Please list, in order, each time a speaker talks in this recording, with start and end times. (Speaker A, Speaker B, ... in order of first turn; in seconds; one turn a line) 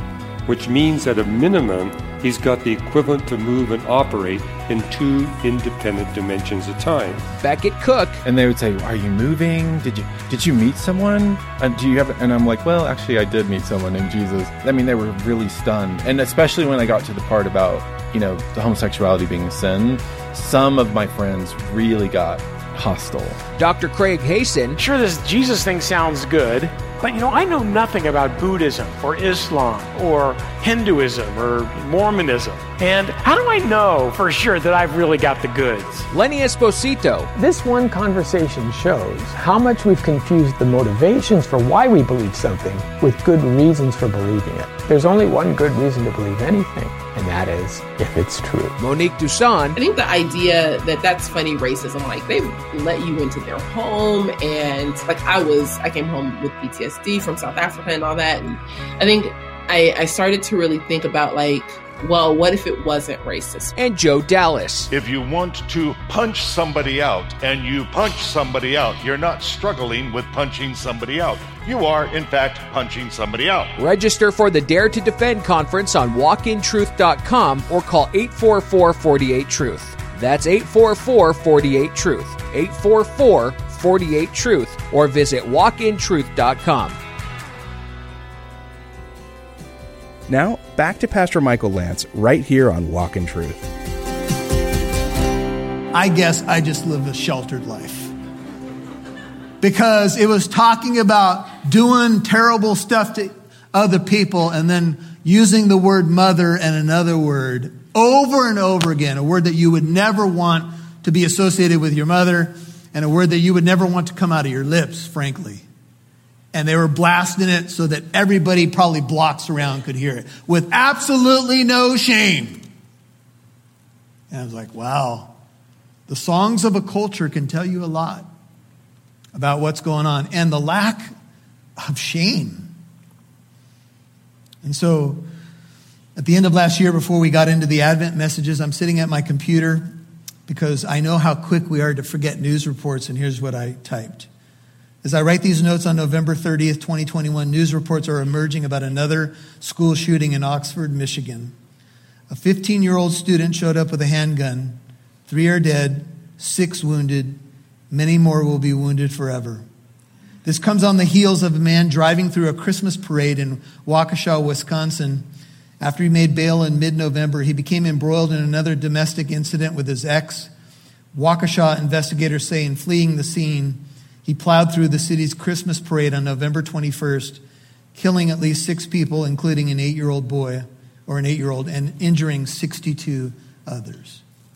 Speaker A: 0.5-7.2
Speaker B: 7.3-8.2
Speaker C: 8.2-23.4
Speaker B: 23.6-24.8
Speaker D: 24.8-36.1
Speaker B: 36.1-37.3
Speaker E: 37.4-48.8
Speaker B: 48.8-49.8
Speaker F: 49.8-63.7
Speaker B: 63.8-64.9
Speaker G: 64.9-73.7
Speaker B: 73.8-87.0
Speaker H: 90.3-93.7
Speaker I: 95.9-98.1
Speaker I: 99.6-115.6
Speaker I: 116.5-122.6
Speaker I: 124.3-125.4
Speaker I: 126.1-128.3
Speaker I: 129.3-131.1
Speaker I: 131.8-132.7
Speaker I: 134.6-135.2
Speaker I: 136.2-144.3
Speaker I: 145.0-151.6
Speaker I: 152.3-159.7
Speaker I: 160.4-165.3
Speaker I: 165.8-170.5
Speaker I: 171.1-177.4
Speaker I: 177.9-184.2